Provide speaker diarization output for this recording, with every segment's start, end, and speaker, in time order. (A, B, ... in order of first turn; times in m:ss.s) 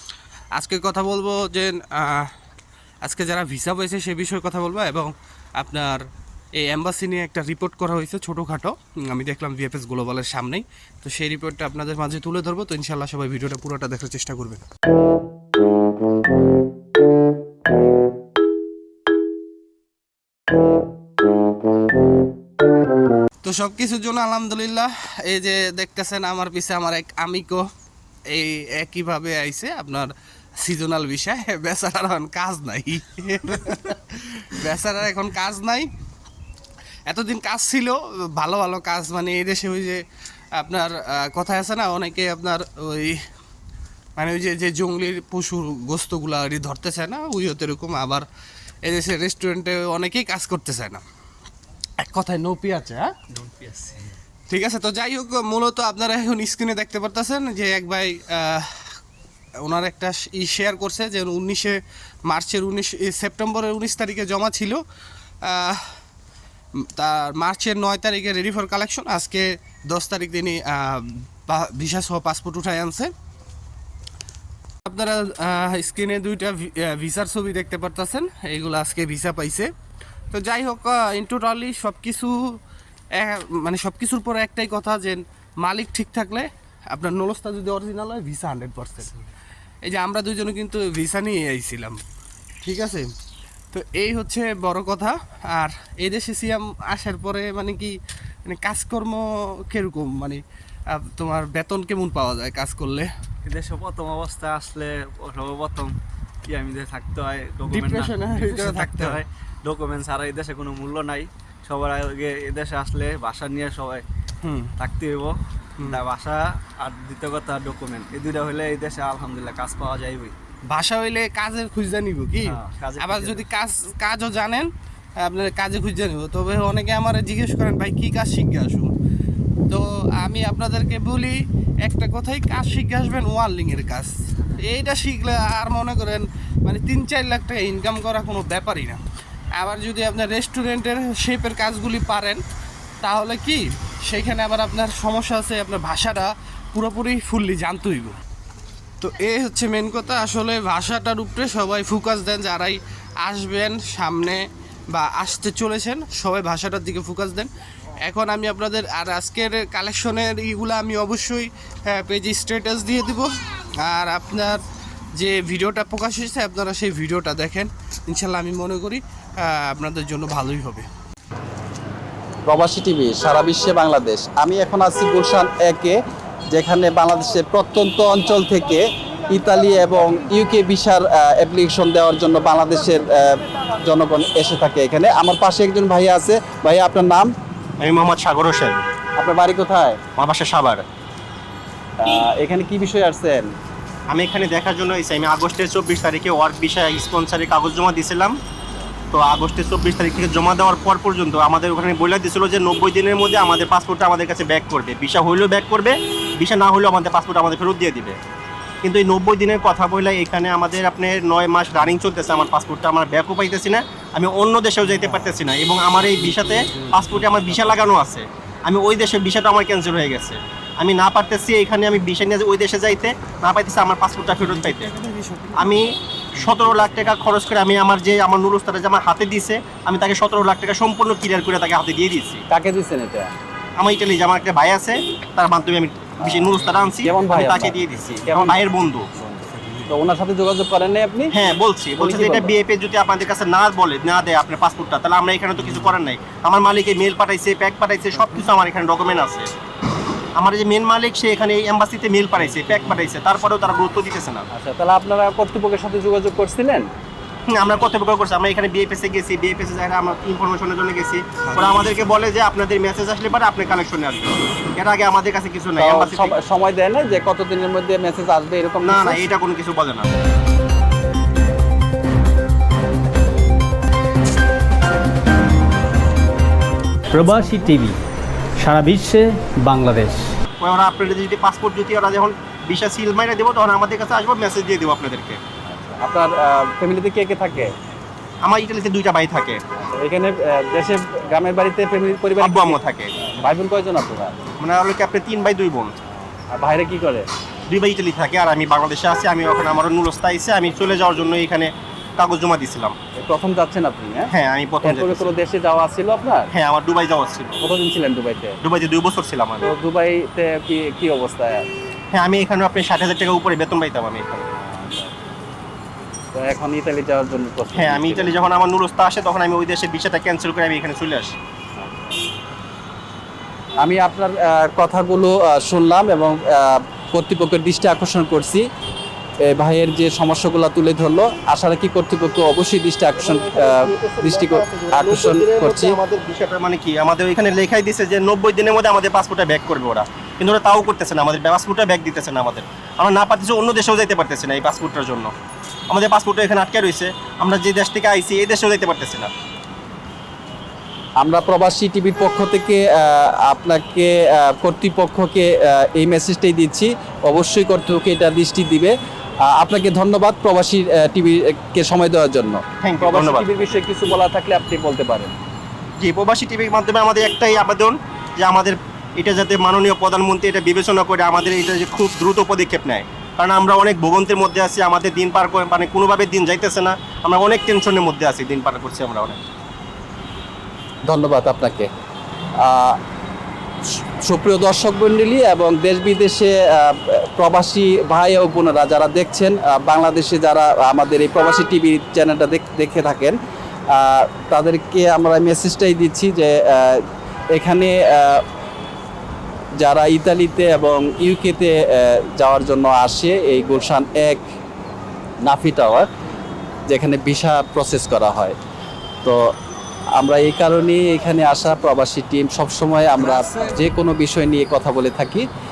0:00.6-0:02.3 A
0:03.0-0:06.0 A
0:06.6-0:14.7 A
0:23.4-0:27.6 A
0:28.3-0:35.9 A
0:37.1-0:40.0 A
0:40.6-0:43.2 A
0:44.2-0:48.2 A
0:48.9-0:51.0 A
0:52.0-0:53.1 A
0:53.3-0:54.1 B
0:54.5-0:58.7 A
0:59.6-1:04.8 A
1:05.5-1:05.8 A
1:07.0-1:13.1 A
1:14.9-1:19.7 A
1:20.3-1:22.3 A
1:23.2-1:29.2 A
1:29.9-1:32.0 A
1:32.6-1:33.1 A
1:33.7-1:38.0 A
1:38.4-1:43.1 A
1:43.4-1:54.1 B
1:47.7-1:49.2 A
1:54.4-1:54.7 A
1:54.8-2:00.4 B
2:00.7-2:04.7 A
2:02.4-2:03.4 B
2:05.2-2:08.9 A
2:09.7-2:19.0 A
2:19.6-2:22.4 A
2:23.0-2:28.2 A
2:29.0-2:37.5 A
2:38.0-2:43.3 A
2:43.8-2:44.6 A
2:45.2-2:50.9 A
2:52.5-2:56.0 C
2:56.5-3:07.3 C
3:07.8-3:08.9 D
3:09.2-3:10.0 C
3:10.2-3:10.8 D
3:12.0-3:13.5 C
3:14.1-3:18.4 D
3:19.1-3:28.2 D
3:28.8-3:44.9 D
3:34.8-3:35.4 A
3:36.0-3:37.9 A
3:44.4-3:45.8 A
3:45.6-3:52.4 D
3:46.4-3:47.1 A
3:52.5-3:53.3 C
3:53.8-3:59.1 D
3:56.2-4:01.3 C
3:56.6-3:56.9 A
3:59.6-3:59.9 A
4:01.3-4:09.5 D
4:02.0-4:02.6 C
4:05.6-4:05.9 A
4:10.4-4:14.5 D
4:12.6-4:13.1 A
4:14.5-4:16.9 C
4:17.5-4:26.4 D
4:21.4-4:22.0 A
4:25.8-4:29.2 C
4:28.8-4:30.1 D
4:37.2-4:37.9 E
4:38.6-4:40.2 E
4:40.6-4:45.4 D
4:45.7-4:47.7 C
4:48.4-4:49.6 D
4:49.8-4:54.4 C
4:52.4-4:53.2 D
4:54.6-4:55.9 D
4:56.5-4:57.3 C
4:57.7-5:03.0 D
5:03.2-5:04.3 C
5:04.3-5:05.3 D
5:04.8-5:06.5 C
5:06.5-5:07.6 D
5:07.6-5:08.6 C
5:08.6-5:09.7 D
5:09.6-5:11.7 C
5:12.1-5:14.4 D
5:14.6-5:15.2 C
5:16.3-5:18.4 C
5:17.8-5:21.4 D
5:21.8-5:22.2 C
5:23.8-5:28.6 C
5:29.5-5:36.0 C
5:33.2-5:45.3 D
5:45.9-5:49.3 D
5:51.2-5:58.9 C
5:59.5-6:05.3 C
6:02.8-6:03.7 D
6:06.0-6:19.4 D
6:21.1-6:21.9 C
6:22.6-6:23.0 C
6:24.3-6:33.4 C
6:33.9-6:37.0 C
6:37.6-6:38.4 C
6:39.8-6:44.4 C
6:45.5-6:46.1 C
6:46.9-6:48.6 C
6:50.2-6:55.4 C